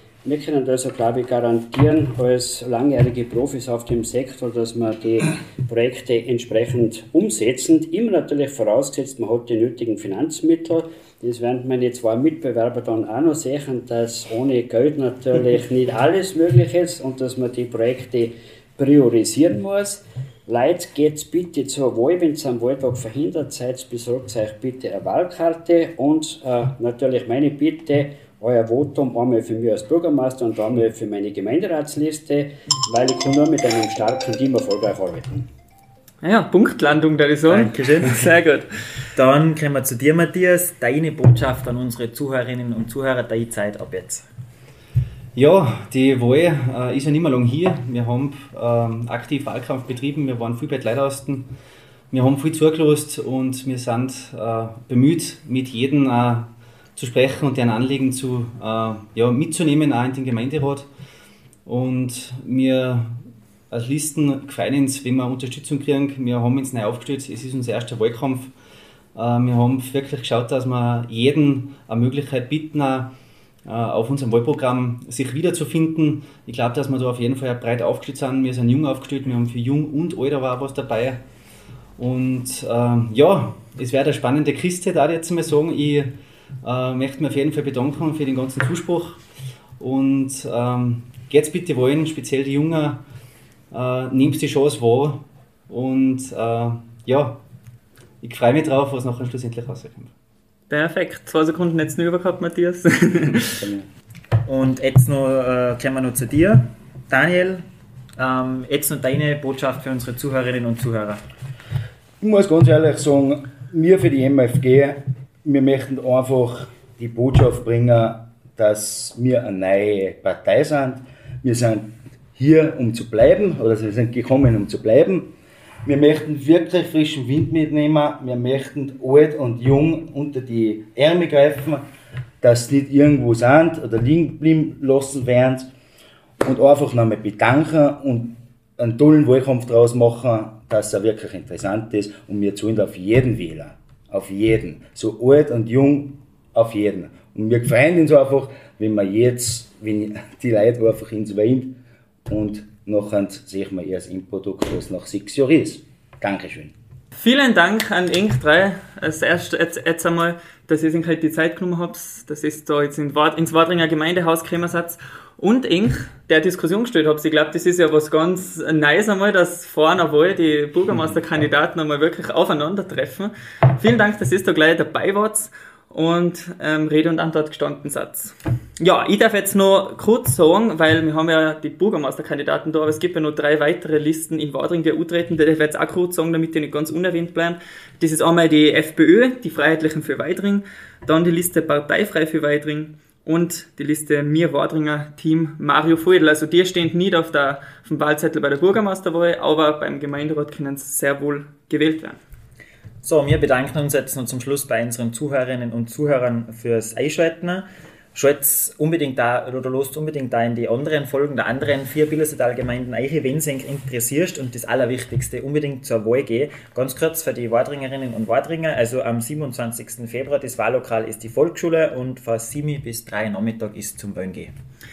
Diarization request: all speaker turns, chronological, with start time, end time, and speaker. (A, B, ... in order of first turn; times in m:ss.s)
0:00.2-0:35.5 A
0:36.2-0:38.7 B
0:37.5-0:38.3 C
0:39.1-0:44.2 C
0:45.3-0:51.5 D
0:52.1-1:00.9 D
1:01.6-1:08.5 D
1:09.1-1:13.1 D
1:13.6-1:21.2 D
1:22.0-1:29.2 D
1:29.8-1:33.0 D
1:33.7-1:37.4 D
1:38.2-1:40.1 D
1:40.7-1:43.7 B
1:44.4-1:47.6 C
1:48.2-1:51.2 C
1:52.2-2:05.3 E
2:05.8-2:11.9 E
2:12.4-2:15.7 E
2:16.4-2:31.7 E
2:32.3-2:36.7 E
2:37.2-3:22.2 B
3:23.0-3:44.5 C